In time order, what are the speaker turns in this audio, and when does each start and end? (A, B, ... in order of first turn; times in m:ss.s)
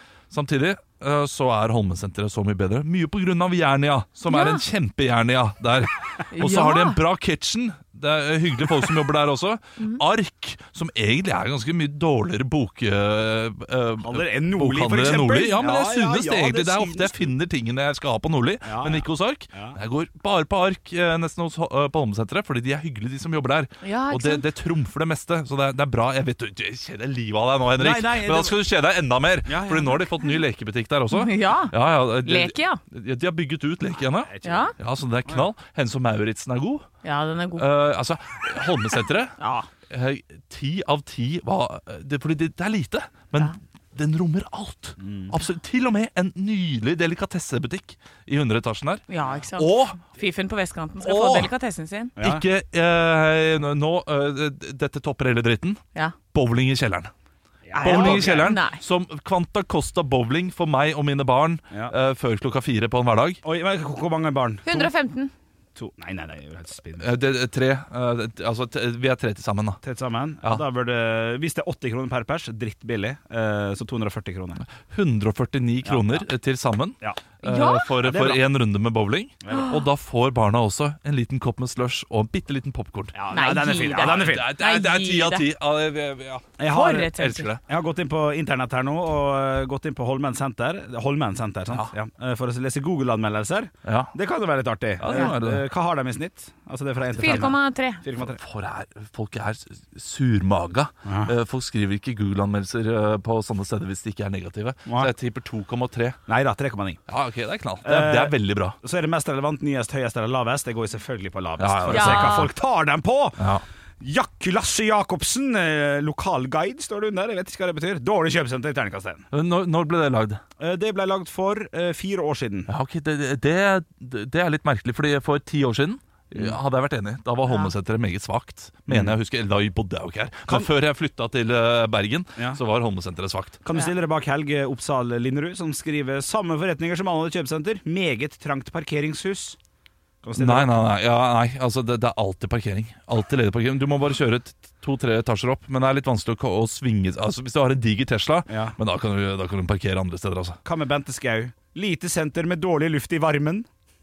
0:00.3-0:36.8 A
0:04.3-0:04.6 B
0:06.3-0:07.0 B
0:14.0-0:17.3 C
0:18.6-0:19.8 C
0:23.8-0:24.4 B
0:27.8-0:28.5 C
0:29.5-0:30.0 C
0:31.1-0:32.8 B
0:34.2-0:34.7 C
0:34.4-0:34.7 B
0:37.0-0:37.6 B
0:37.6-0:39.3 A
0:39.4-0:39.7 B
0:39.9-0:49.0 A
0:45.0-0:45.3 C
0:49.1-0:52.1 B
0:49.6-0:50.0 A
0:51.0-0:51.5 A
0:52.2-0:52.4 C
0:52.2-0:55.8 A
0:56.3-0:57.1 A
0:57.6-0:58.6 C
0:57.8-0:58.8 B
0:57.8-1:03.4 A
1:03.4-1:04.9 C
1:04.6-1:05.3 B
1:05.7-1:07.1 C
1:07.0-1:09.8 A
1:09.8-1:14.6 C
1:14.8-1:23.2 A
1:15.8-1:16.2 C
1:17.4-1:17.9 B
1:18.0-1:18.4 C
1:19.4-1:19.7 C
1:23.1-1:24.5 C
1:23.3-1:25.4 B
1:24.0-1:27.6 A
1:26.6-1:38.4 C
1:26.7-1:27.5 B
1:33.8-1:34.1 A
1:35.0-1:35.6 A
1:35.0-1:35.3 B
1:37.2-1:38.0 B
1:38.2-1:46.2 A
1:41.0-1:41.3 C
1:44.8-1:45.1 C
1:46.3-1:47.0 C
1:47.1-1:48.8 A
1:47.8-1:53.4 C
1:51.6-1:52.5 A
1:51.9-1:52.5 B
1:53.4-1:53.6 A
1:54.0-1:59.3 C
1:59.3-2:00.4 A
2:00.6-2:02.7 C
2:02.7-2:13.6 A
2:07.4-2:07.7 B
2:08.9-2:09.1 C
2:13.6-2:19.6 C
2:20.2-2:20.7 C
2:20.4-2:30.6 A
2:28.5-2:28.8 C
2:30.6-2:33.7 C